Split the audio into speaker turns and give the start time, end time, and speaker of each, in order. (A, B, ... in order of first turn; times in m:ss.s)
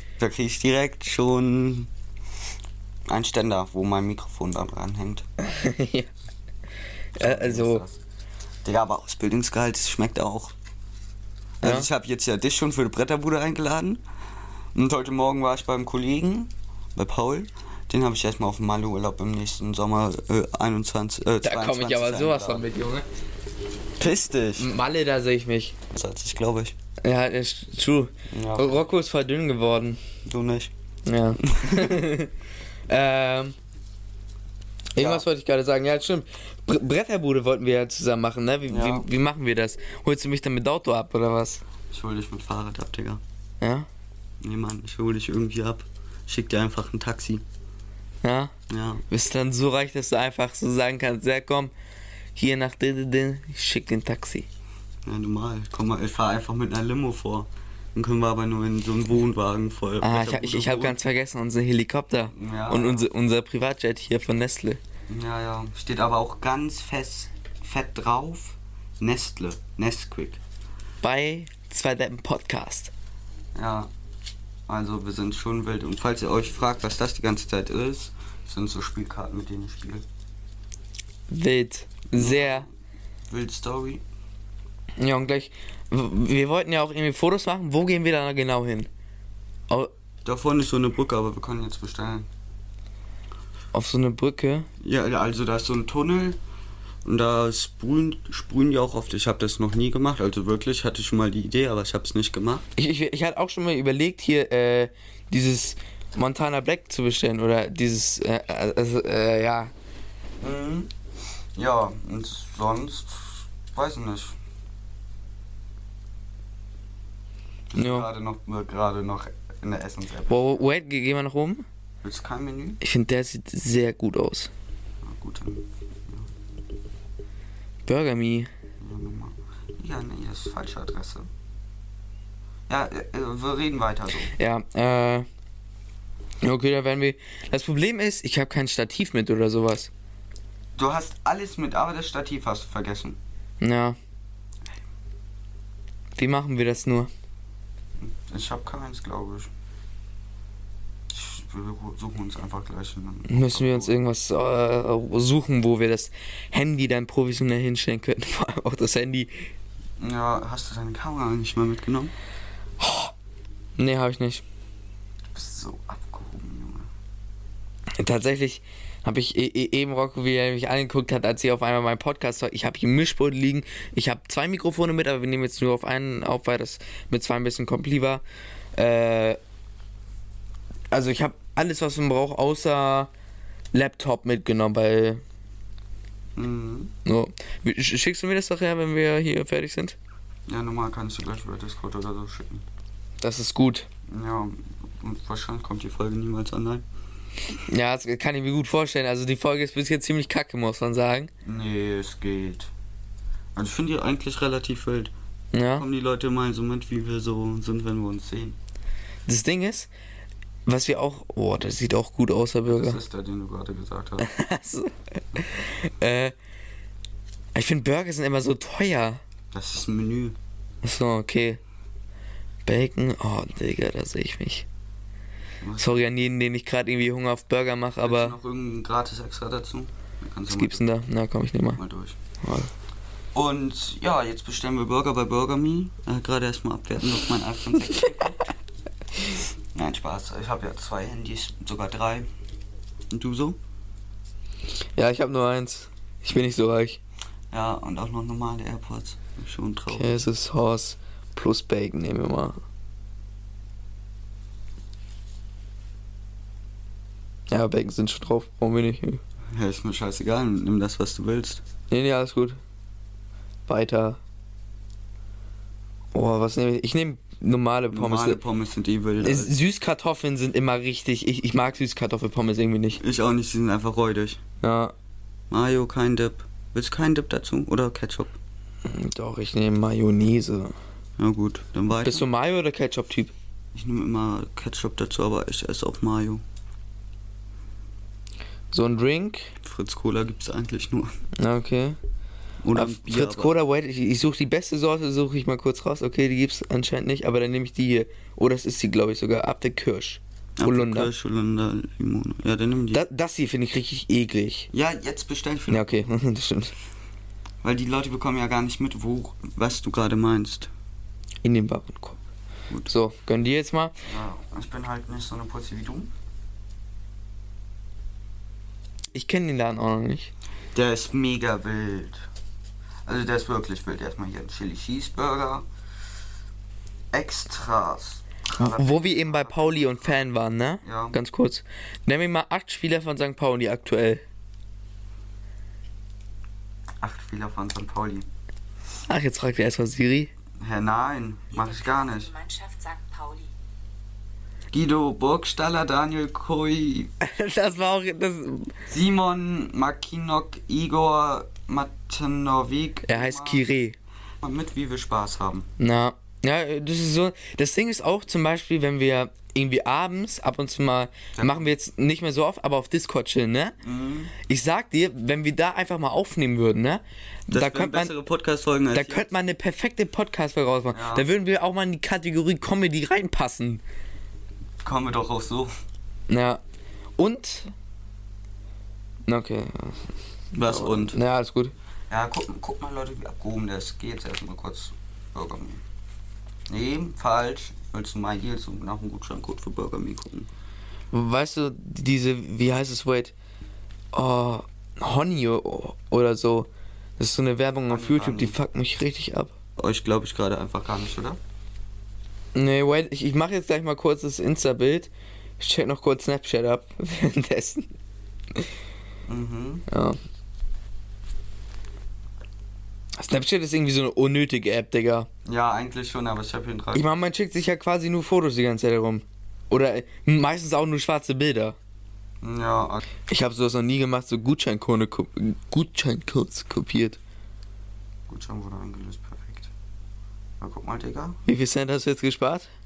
0:00.2-0:01.9 A
0:03.1-0:05.2 A
0:05.4-0:06.1 B
0:07.1-0:07.8 B
0:07.2-0:08.0 A
0:08.6-0:10.5 A
0:11.6-0:14.0 A
0:14.7-0:22.6 A
0:21.4-0:23.0 B
0:24.0-0:24.7 A
0:24.6-0:25.8 B
0:25.9-0:26.7 A
0:27.0-0:30.0 B
0:28.3-0:28.9 A
0:30.2-0:30.7 A
0:31.0-0:32.3 B
0:31.5-0:32.0 A
0:32.9-0:33.5 B
0:34.9-0:41.6 B
0:35.0-0:35.2 A
0:38.7-0:39.0 A
0:41.9-0:43.2 A
0:43.6-0:43.9 B
0:44.4-0:47.4 A
0:48.2-0:48.5 B
0:48.7-0:49.0 A
0:49.1-0:51.7 B
0:52.4-0:54.4 B
0:55.0-1:01.0 A
1:00.0-1:04.8 B
1:02.3-1:03.0 A
1:05.1-1:10.4 A
1:11.0-1:12.9 B
1:13.5-1:13.9 A
1:14.7-1:20.0 A
1:21.3-1:22.7 B
1:22.1-1:22.7 A
1:23.3-1:24.0 A
1:25.0-1:28.9 B
1:30.2-1:32.3 A
1:33.7-1:34.7 B
1:34.8-1:36.4 A
1:37.0-1:42.6 A
1:42.8-1:49.7 B
1:50.4-1:50.9 A
1:51.5-1:54.4 A
1:57.7-2:00.4 A
1:57.8-1:58.1 B
2:00.3-2:01.6 B
2:02.0-2:02.8 A
2:02.8-2:04.5 B
2:05.0-2:06.3 A
2:07.9-2:08.5 B
2:08.8-2:11.3 A
2:12.7-2:14.3 A
2:14.3-2:15.2 B
2:16.4-2:19.9 B
2:20.8-2:23.2 A
2:23.6-2:24.0 B
2:26.2-2:27.1 B
2:28.0-2:29.5 A
2:31.1-2:34.0 A
2:33.3-2:39.5 B
2:40.0-2:42.1 A
2:42.8-2:43.1 B
2:43.8-2:44.4 B
2:45.3-2:46.9 A
2:48.0-2:58.2 B
2:58.8-2:59.4 B
3:00.9-3:03.1 B
3:03.7-3:05.2 B
3:06.4-3:06.9 A
3:07.0-3:10.0 B
3:10.5-3:12.6 A
3:13.2-3:13.9 B
3:14.1-3:16.8 A
3:17.5-3:21.3 B
3:21.4-3:22.7 A
3:23.6-3:25.1 A
3:25.5-3:25.8 B
3:25.7-3:28.6 A
3:29.3-3:29.9 B
3:30.6-3:33.0 B
3:32.7-3:34.3 A
3:34.2-3:36.3 B
3:37.5-3:39.2 B
3:39.5-3:40.4 A
3:40.8-3:41.6 B
3:42.6-3:44.7 B
3:45.6-3:46.0 A
3:45.8-3:48.4 B
3:48.0-3:50.8 A
3:50.5-3:51.8 B
3:51.8-3:52.2 A
3:52.4-3:52.7 B
3:53.3-3:58.4 A
3:59.2-4:02.3 A
4:03.1-4:03.6 A
4:05.0-4:07.0 B
4:07.5-4:10.3 A
4:09.9-4:12.6 B
4:17.5-4:19.2 B
4:19.5-4:21.6 A
4:21.9-4:22.6 B
4:23.7-4:24.2 B
4:26.1-4:28.4 B
4:27.9-4:29.5 A
4:29.2-4:33.0 B
4:33.0-4:34.4 A
4:34.6-4:34.9 B
4:35.5-4:38.4 A
4:38.8-4:40.7 B
4:41.2-4:42.2 A
4:42.0-4:43.3 B
4:43.7-4:46.4 A
4:48.7-4:49.5 B
4:49.6-4:51.2 A
4:51.4-4:52.0 B
4:52.6-4:53.5 A
4:52.7-5:01.1 B
5:00.6-5:03.0 A
5:02.9-5:04.7 B
5:04.7-5:06.0 A
5:05.7-5:06.7 B
5:07.6-5:10.7 A
5:11.4-5:12.2 B
5:12.9-5:14.0 B
5:14.0-5:16.1 A
5:19.1-5:20.3 B
5:20.7-5:22.2 A
5:23.0-5:25.6 A
5:27.1-5:30.2 A
5:28.6-5:34.2 B
5:30.8-5:31.2 A
5:37.0-5:38.3 A
5:39.1-5:40.3 B
5:40.6-5:42.3 A
5:41.5-5:43.5 C
5:44.7-5:47.1 A
5:47.2-5:48.8 B
5:48.9-5:53.6 A
5:53.1-5:54.0 B
5:54.4-5:55.7 A
5:55.8-6:03.8 B
6:01.3-6:01.7 A
6:03.8-6:04.3 A
6:04.4-6:08.1 B
6:07.5-6:09.3 A
6:08.9-6:13.8 B
6:10.9-6:11.3 A
6:14.8-6:15.7 A
6:16.3-6:16.6 B
6:17.2-6:17.7 B
6:19.3-6:20.0 B
6:20.5-6:21.2 A
6:20.6-6:21.7 B
6:22.1-6:25.8 A
6:26.7-6:30.5 A
6:31.1-6:33.3 B
6:34.1-6:39.5 B
6:37.9-6:38.6 A
6:39.8-6:41.4 A
6:42.5-6:47.9 B
6:49.2-6:49.8 A
6:49.9-6:50.2 B
6:53.2-6:55.3 B
6:55.4-6:57.0 A
6:56.9-7:01.8 B
7:02.4-7:03.0 A
7:03.3-7:07.2 B
7:08.3-7:09.7 A
7:10.6-7:11.4 A
7:11.4-7:12.7 B